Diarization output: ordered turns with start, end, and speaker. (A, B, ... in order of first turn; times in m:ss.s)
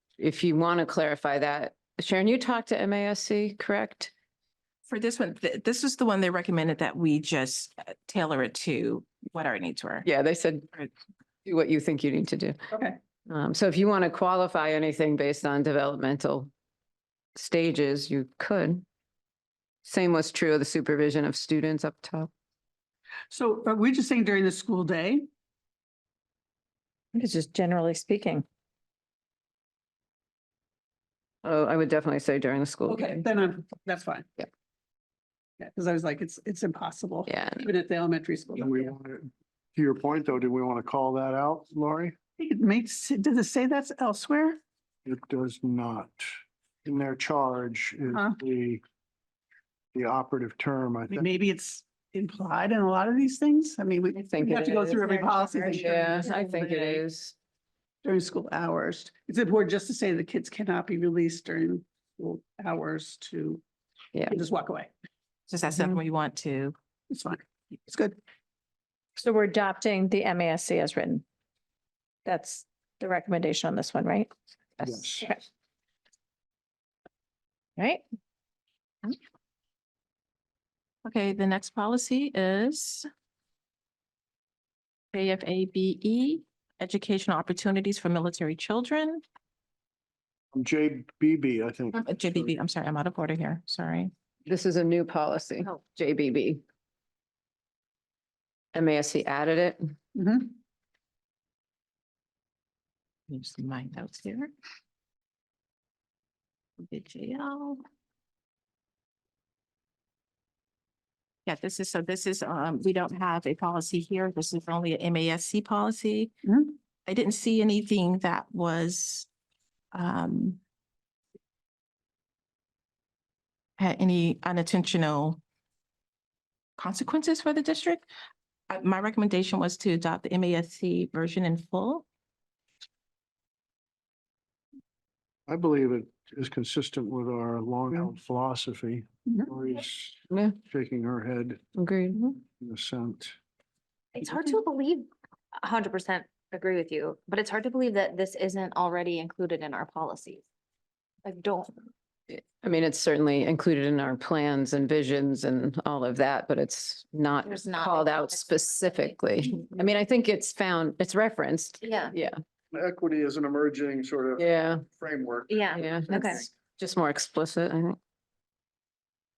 0:00.2-0:04.1 A
0:04.9-0:10.0 B
0:10.0-0:10.7 A
0:11.4-0:12.5 A
0:12.7-0:13.0 C
0:13.3-0:16.5 A
0:17.4-0:18.8 A
0:19.8-0:22.3 A
0:23.3-0:25.2 C
0:27.1-0:28.4 D
0:31.4-0:33.3 A
0:32.9-0:34.3 C
0:35.6-0:38.9 C
0:37.3-0:37.6 A
0:38.6-0:42.1 E
0:42.4-0:44.6 C
0:45.0-0:46.3 E
0:46.8-0:48.8 E
0:48.1-0:48.4 C
0:49.9-0:51.3 E
0:51.1-0:57.0 C
0:54.1-0:57.3 A
0:58.0-1:03.6 C
1:04.3-1:04.9 C
1:05.5-1:06.8 B
1:07.1-1:08.2 C
1:09.2-1:11.2 D
1:12.2-1:15.4 D
1:14.8-1:15.3 E
1:21.0-1:23.0 B
1:25.1-1:29.2 B
1:30.5-1:32.5 E
1:31.9-1:34.1 B
1:34.4-1:36.6 A
1:38.7-1:39.9 A
1:40.1-1:40.6 C
1:43.3-1:44.5 B
1:46.8-1:47.8 B
1:51.4-1:56.3 B
1:56.4-1:56.7 C
1:57.0-1:59.3 B
1:59.9-2:00.6 B
2:03.8-2:05.4 B
2:06.8-2:08.1 B
2:08.7-2:12.0 B
2:15.5-2:21.6 E
2:20.3-2:20.6 A
2:21.8-2:22.2 A
2:22.6-2:23.4 E
2:24.1-2:30.4 F
2:31.2-2:31.7 F
2:32.3-2:42.3 A
2:37.4-2:39.1 F
2:41.8-2:42.1 F
2:42.7-2:46.4 E
2:44.4-2:44.8 A
2:45.5-2:46.4 F
2:45.7-2:48.0 A